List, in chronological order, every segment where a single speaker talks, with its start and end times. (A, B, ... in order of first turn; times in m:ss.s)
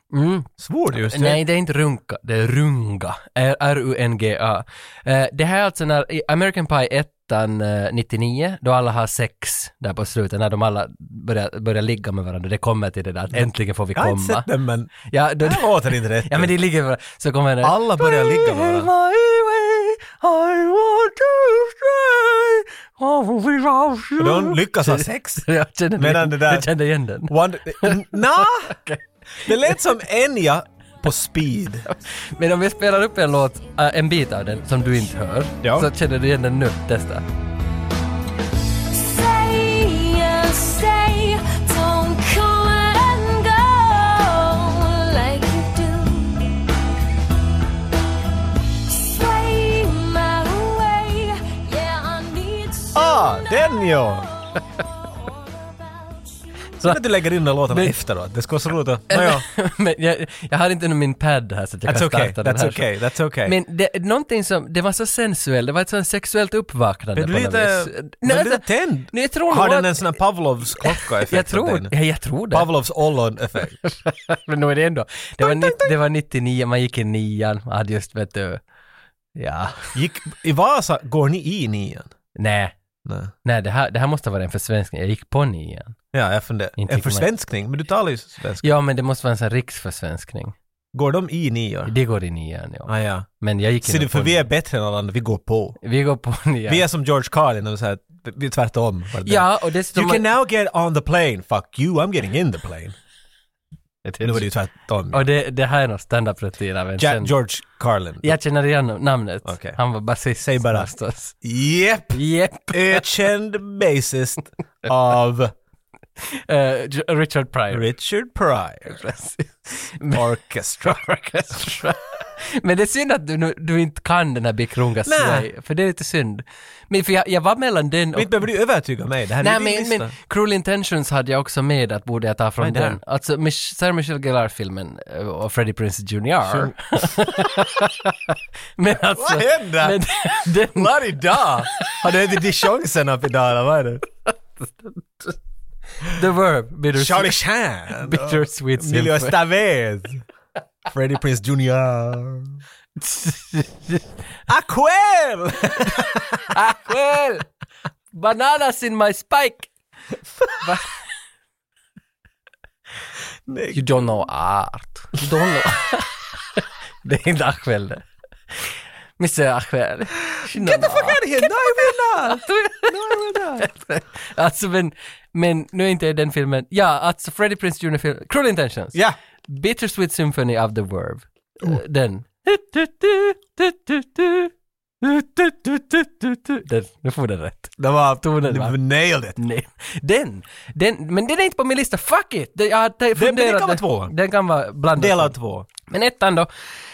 0:00.1-0:14.5 A
0:00.6-0:01.4 B
0:13.3-0:16.5 B
0:15.0-0:15.7 A
0:16.2-0:29.7 A
0:17.6-0:18.9 B
0:24.2-0:25.4 B
0:26.0-0:26.7 B
0:27.3-0:28.7 B
0:29.4-0:31.9 B
0:31.9-0:37.2 A
0:35.6-0:35.9 B
0:38.9-0:46.7 C
0:48.7-0:56.6 C
0:52.9-0:54.3 B
0:56.8-0:59.4 B
0:57.7-0:58.0 A
0:59.1-1:02.8 A
1:01.8-1:03.6 B
1:03.4-1:10.1 A
1:07.2-1:11.9 B
1:10.7-1:12.7 A
1:12.5-1:13.8 B
1:13.8-1:18.6 A
1:15.4-1:15.9 B
1:19.4-1:19.9 A
1:19.8-1:22.1 B
1:22.4-1:22.7 A
1:23.0-1:23.3 B
1:23.4-1:26.0 A
1:26.1-1:28.7 B
1:26.8-1:27.3 A
1:28.6-1:30.5 A
1:30.9-1:31.9 B
1:31.9-1:34.5 A
1:32.9-1:33.3 B
1:33.8-1:35.8 B
1:35.8-1:36.8 A
1:36.7-1:42.9 B
1:39.2-1:40.2 A
1:44.0-1:44.5 A
1:44.2-1:45.2 B
1:45.1-1:47.3 A
1:47.0-1:48.4 B
1:48.2-1:51.3 A
1:49.4-1:49.8 B
1:50.4-1:52.2 B
1:52.1-1:53.1 A
1:52.7-1:55.5 B
1:56.2-1:57.9 A
1:57.7-1:59.0 B
1:58.9-2:00.2 A
2:00.1-2:01.0 B
2:00.8-2:08.3 A
2:05.0-2:05.5 B
2:08.1-2:10.1 B
2:09.4-2:22.1 A
2:12.6-2:13.0 B
2:16.5-2:17.5 B
2:19.1-2:24.0 B
2:24.3-2:25.4 A
2:26.0-2:27.4 A
2:26.9-2:30.2 B
2:28.0-2:29.4 A
2:30.8-2:32.6 B
2:33.0-2:34.1 A
2:34.5-2:36.5 B
2:35.9-2:37.5 A
2:38.1-2:39.7 A
2:40.6-2:40.9 A
2:43.5-2:43.9 B
2:43.7-3:08.8 A
2:50.5-2:53.7 B
3:07.8-3:09.4 B
3:09.4-3:16.5 A
3:13.1-3:14.1 B
3:15.0-3:15.6 B